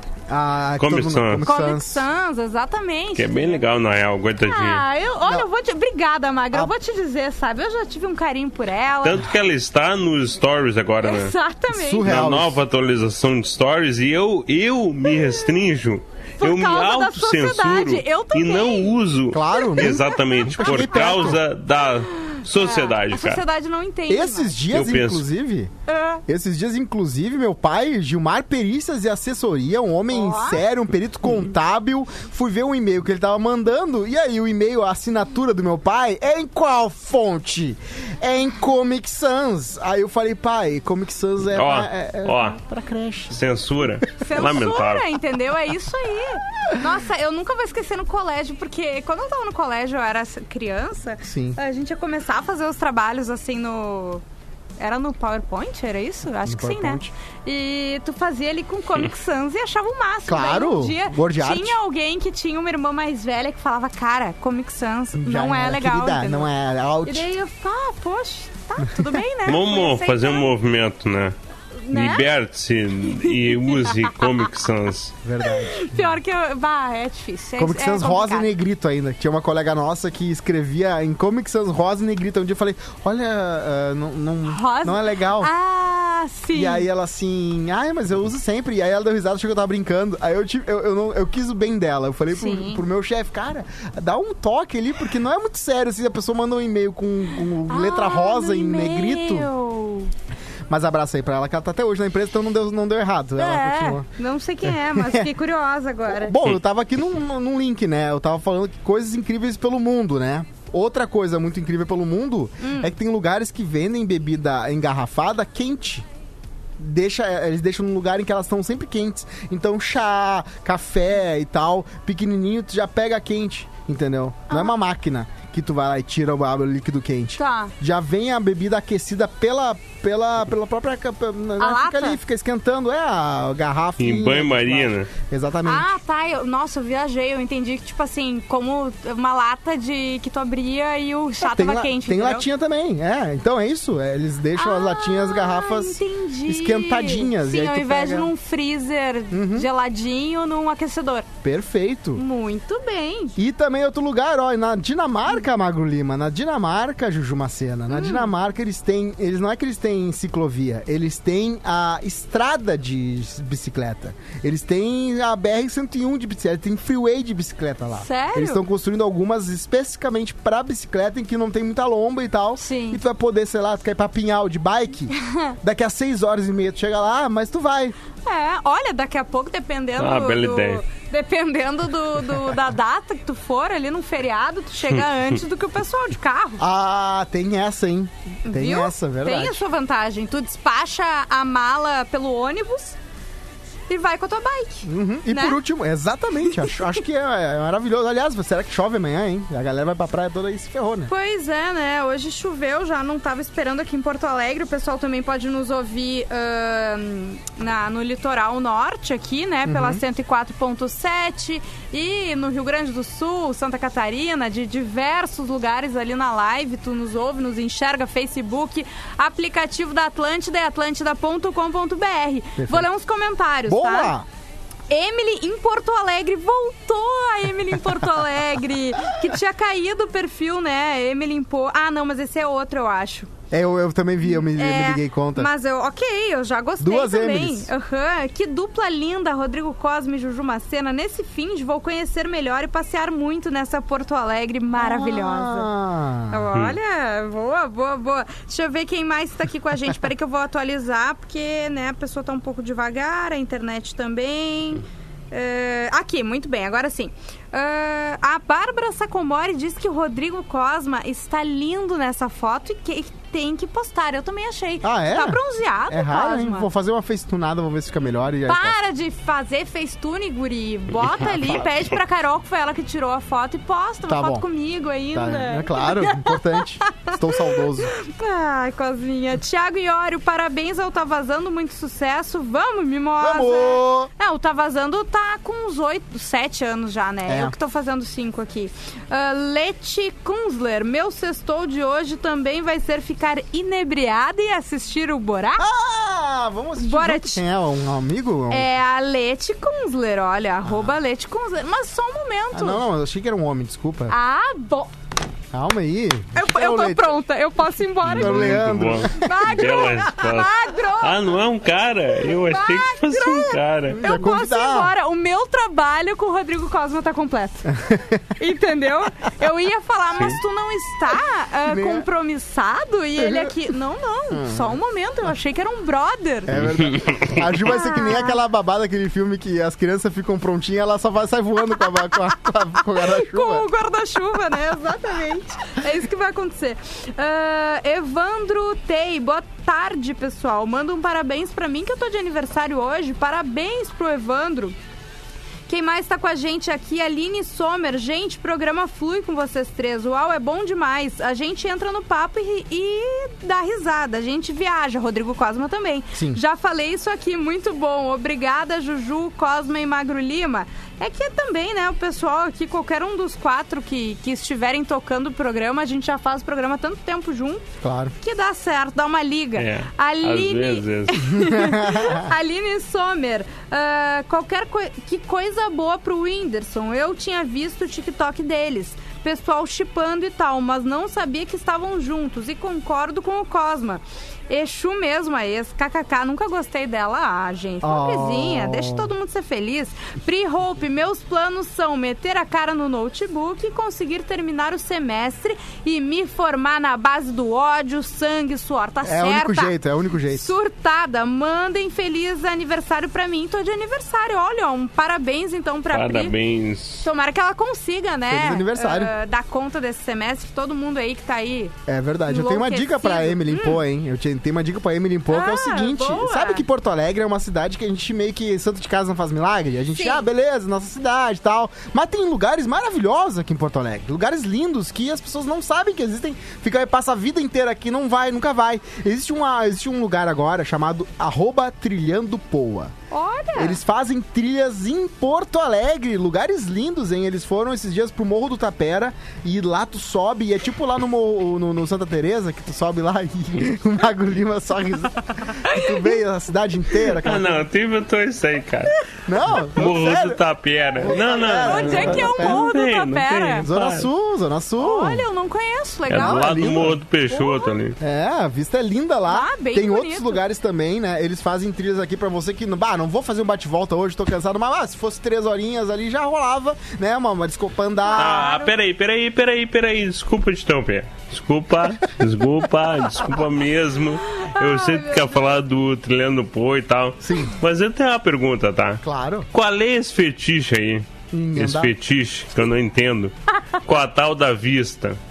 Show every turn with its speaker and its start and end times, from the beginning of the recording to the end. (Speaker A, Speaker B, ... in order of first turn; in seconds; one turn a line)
Speaker A: 0.3-2.0
Speaker B: 0.8-1.4
Speaker C: 1.4-3.6
Speaker B: 3.1-4.8
Speaker C: 4.4-9.2
Speaker B: 9.0-11.3
Speaker C: 11.0-12.1
Speaker A: 11.7-12.6
Speaker B: 12.0-23.4
Speaker C: 15.1-15.5
Speaker C: 16.4-18.9
Speaker A: 19.3-21.4
Speaker C: 19.5-21.4
Speaker C: 22.2-24.6
Speaker A: 24.1-25.7
Speaker B: 24.7-25.2
Speaker C: 25.9-26.2
Speaker A: 26.3-43.4
Speaker C: 30.1-30.6
Speaker B: 41.5-42.6
Speaker B: 43.3-45.0
Speaker C: 44.2-54.2
Speaker A: 51.2-51.6
Speaker C: 54.8-66.5
Speaker A: 56.4-57.1
Speaker A: 60.2-61.8
Speaker A: 65.1-67.3
Speaker C: 67.0-70.5
Speaker B: 69.4-71.3
Speaker C: 71.8-72.3
Speaker B: 71.9-75.1
Speaker C: 73.2-74.3
Speaker A: 75.2-76.2
Speaker C: 75.4-78.5
Speaker A: 77.6-85.5
Speaker C: 84.5-86.8
Speaker A: 86.5-99.5
Speaker C: 92.3-92.8
Speaker C: 97.7-100.1
Speaker A: 100.7-104.1
Speaker C: 103.4-106.3
Speaker A: 104.8-105.3
Speaker A: 106.1-116.0
Speaker C: 112.6-112.9
Speaker A: 116.8-135.9
Speaker C: 124.5-124.7
Speaker C: 127.4-127.7
Speaker C: 131.6-132.2
Speaker B: 134.0-135.1
Speaker C: 135.6-142.5
Speaker A: 141.4-148.3
Speaker C: 144.6-151.3
Speaker A: 149.3-149.7
Speaker A: 151.4-152.2
Speaker C: 152.1-153.4
Speaker A: 153.4-177.9
Speaker C: 157.9-158.3
Speaker C: 167.9-168.6
Speaker C: 172.6-173.0
Speaker C: 175.2-175.5
Speaker C: 178.2-186.6
Speaker B: 180.0-180.8
Speaker A: 186.6-189.6
Speaker C: 188.4-193.0
Speaker C: 193.9-195.6
Speaker A: 194.8-201.1
Speaker C: 196.5-196.8
Speaker C: 201.1-224.1
Speaker A: 209.7-210.0
Speaker A: 222.6-222.9
Speaker A: 223.7-224.2
Speaker C: 224.9-233.3
Speaker A: 233.5-235.5
Speaker C: 234.3-245.7
Speaker A: 236.8-237.7
Speaker A: 244.8-246.4
Speaker C: 246.3-266.7
Speaker A: 264.8-268.8
Speaker C: 268.5-295.7
Speaker A: 274.1-274.4
Speaker A: 275.1-277.9
Speaker A: 283.2-284.1
Speaker A: 287.3-287.5
Speaker A: 295.6-298.7
Speaker C: 296.8-297.4
Speaker C: 298.5-302.8
Speaker A: 300.6-300.9
Speaker A: 302.5-304.1
Speaker C: 304.1-304.9
Speaker A: 305.5-307.2
Speaker C: 306.3-311.3
Speaker B: 308.0-314.0
Speaker A: 308.1-309.9
Speaker C: 312.3-317.7
Speaker A: 313.9-314.9
Speaker A: 317.7-318.3
Speaker C: 318.4-326.5
Speaker A: 321.6-322.1
Speaker A: 323.2-323.5
Speaker A: 324.3-324.8
Speaker A: 326.5-333.6
Speaker B: 326.5-327.4
Speaker C: 327.6-328.4
Speaker C: 333.0-344.8
Speaker C: 345.7-367.7
Speaker A: 356.1-356.4
Speaker A: 367.8-368.1
Speaker C: 368.2-399.7
Speaker B: 369.6-371.2
Speaker A: 371.4-372.3
Speaker A: 387.8-389.1
Speaker A: 399.0-400.5
Speaker C: 400.3-406.3
Speaker B: 405.9-407.0
Speaker C: 407.0-411.7
Speaker A: 408.3-409.1
Speaker A: 411.9-432.9
Speaker C: 412.3-413.8
Speaker C: 415.3-416.6
Speaker C: 419.9-420.2
Speaker C: 433.1-433.8
Speaker A: 433.5-447.6
Speaker C: 445.6-445.9
Speaker B: 447.2-448.9
Speaker A: 449.2-450.4
Speaker B: 449.6-454.1
Speaker A: 451.0-452.6
Speaker C: 451.4-453.7
Speaker A: 453.6-455.2
Speaker C: 454.8-457.7
Speaker B: 456.1-458.0
Speaker A: 456.1-457.0
Speaker A: 458.0-468.5
Speaker C: 459.3-460.4
Speaker C: 468.0-468.7
Speaker B: 468.1-485.2
Speaker C: 474.2-475.5
Speaker A: 477.2-477.5
Speaker A: 479.0-479.5
Speaker A: 481.3-481.9